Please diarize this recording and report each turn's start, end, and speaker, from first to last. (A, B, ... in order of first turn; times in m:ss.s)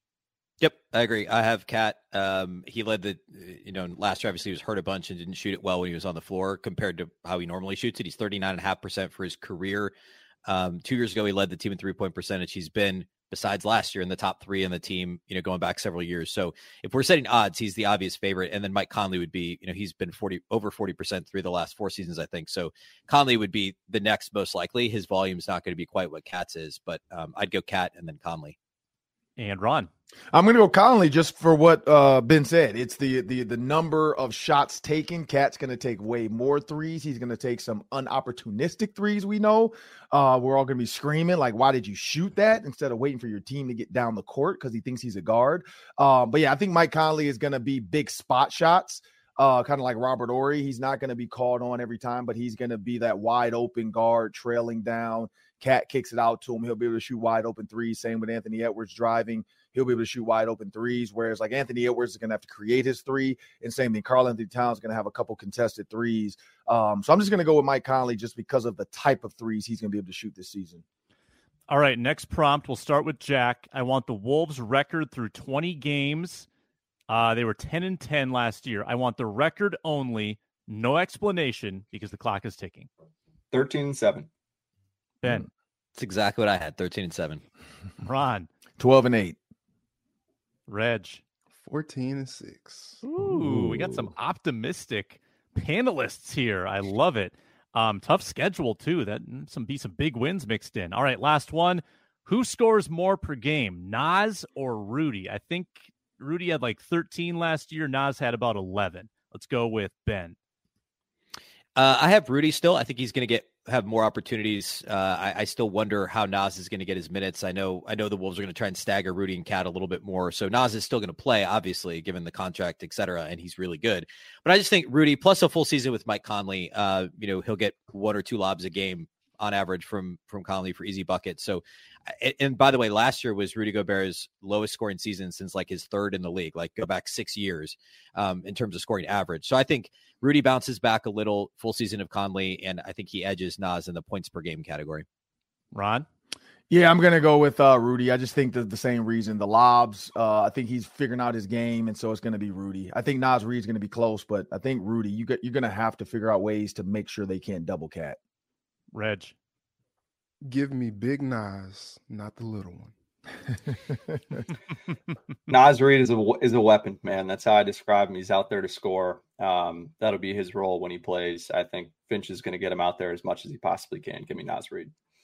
0:00.6-0:09.9 A
0:10.4-0:28.5 A
0:29.4-0:29.9 B
0:30.3-1:10.8 C
1:11.7-1:16.5 B
1:17.1-1:22.9 B
1:23.5-1:24.3 D
1:25.2-1:25.5 B
1:26.0-1:27.4 A
1:28.0-1:28.5 B
1:28.8-1:29.4 C
1:30.7-1:31.2 B
1:31.6-1:33.0 E
1:33.0-1:50.4 B
1:33.2-1:34.1 C
1:51.8-2:25.0 A
2:25.7-2:26.0 B
2:26.7-2:38.2 C
2:38.9-2:39.3 B
2:40.4-2:42.9 E
2:45.5-2:54.9 D